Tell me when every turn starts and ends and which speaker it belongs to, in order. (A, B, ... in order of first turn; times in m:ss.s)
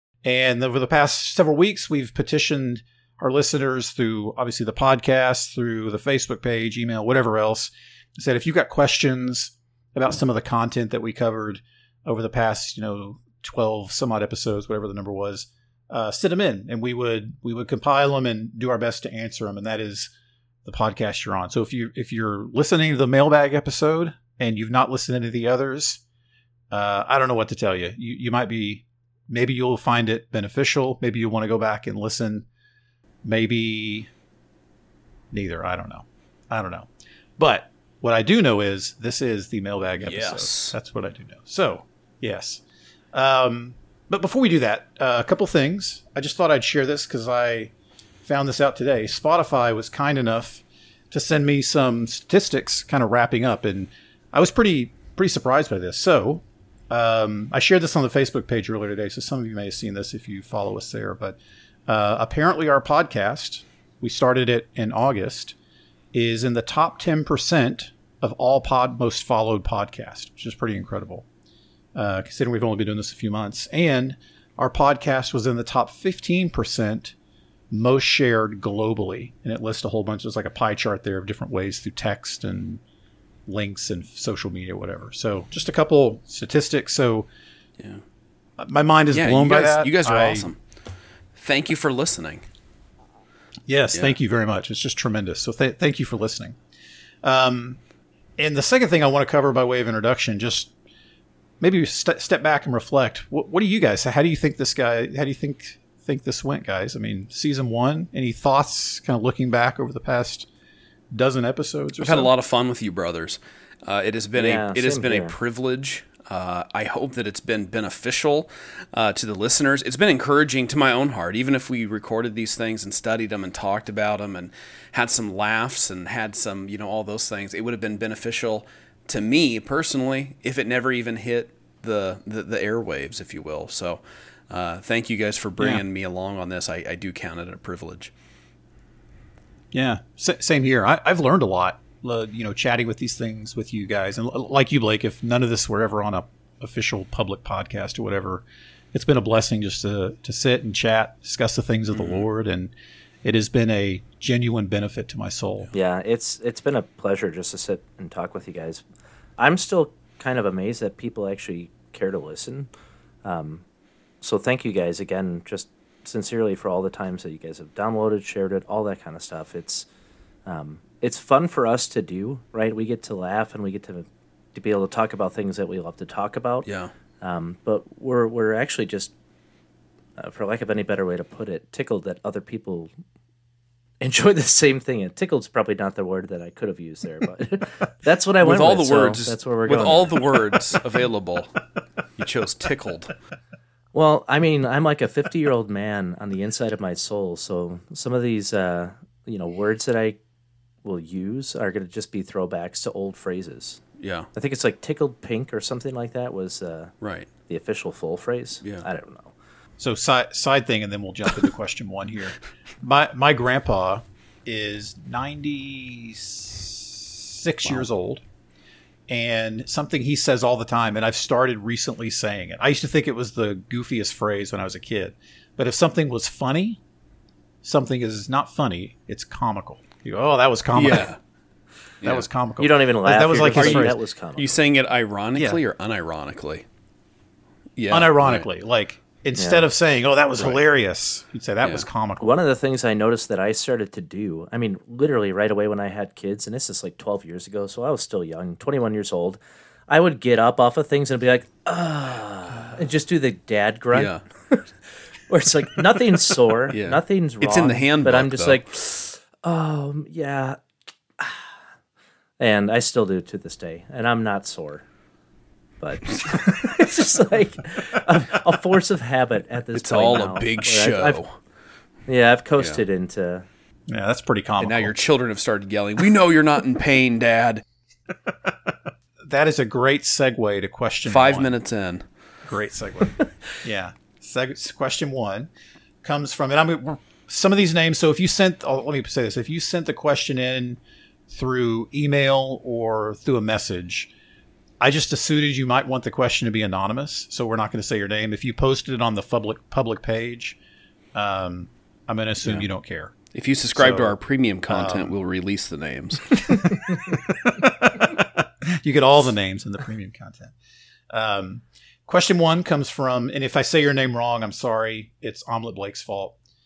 0:00.2-0:20.1 A
0:20.6-0:26.0 A
0:26.7-0:32.4 A
0:33.2-0:34.1 A
0:35.3-0:42.6 A
0:40.0-0:40.8 B
0:43.1-0:47.7 A
0:48.2-1:05.6 A
1:06.1-1:11.2 A
1:12.0-1:17.1 A
1:17.7-1:22.8 A
1:23.5-1:27.3 A
1:28.6-1:30.5 A
1:29.1-1:30.6 B
1:31.4-1:32.4 B
1:33.7-1:36.6 A
1:37.2-1:37.8 A
1:38.4-1:40.7 A
1:41.6-1:50.5 A
1:51.1-1:52.3 A
1:52.0-2:18.1 B
1:54.4-1:55.4 C
2:19.7-2:32.7 A
2:31.9-2:32.2 B
2:33.2-2:35.7 A
2:35.7-2:38.8 C
2:39.4-2:42.7 C
2:43.2-2:43.6 C
2:44.2-2:49.9 C
2:50.4-2:56.6 C
2:56.6-2:56.9 B
2:57.2-2:59.1 C
3:00.2-3:02.9 C
3:04.0-3:10.6 C
3:08.4-3:11.6 B
3:12.2-3:13.2 B
3:13.9-3:20.2 C
3:20.8-3:23.8 C
3:24.0-3:24.3 B
3:24.3-3:26.9 C
3:27.0-3:27.3 B
3:27.5-3:29.4 C
3:29.8-3:38.2 A
3:39.1-3:46.8 A
3:47.6-3:51.1 A
3:50.8-3:51.2 B
3:52.0-3:54.0 A
3:52.6-3:54.6 C
3:53.4-3:56.6 B
3:55.3-3:55.6 A
3:57.8-3:58.4 B
3:57.9-4:02.3 A
3:59.4-3:59.6 C
4:02.2-4:14.6 C
4:13.9-4:14.2 B
4:15.3-4:20.6 C
4:16.7-4:18.6 B
4:21.2-4:21.5 C
4:22.4-4:24.8 C
4:25.8-4:31.2 C
4:29.8-4:31.3 B
4:32.1-4:33.5 C
4:33.9-4:34.9 A
4:34.6-4:37.6 B
4:39.2-4:41.5 A
4:41.1-4:42.0 B
4:42.5-4:45.5 A
4:46.0-4:54.1 A
4:54.8-5:00.6 A
5:01.1-5:03.1 A
5:03.3-5:06.9 B
5:03.8-5:04.2 A
5:04.7-5:05.1 A
5:06.4-5:10.5 A
5:11.1-5:16.4 A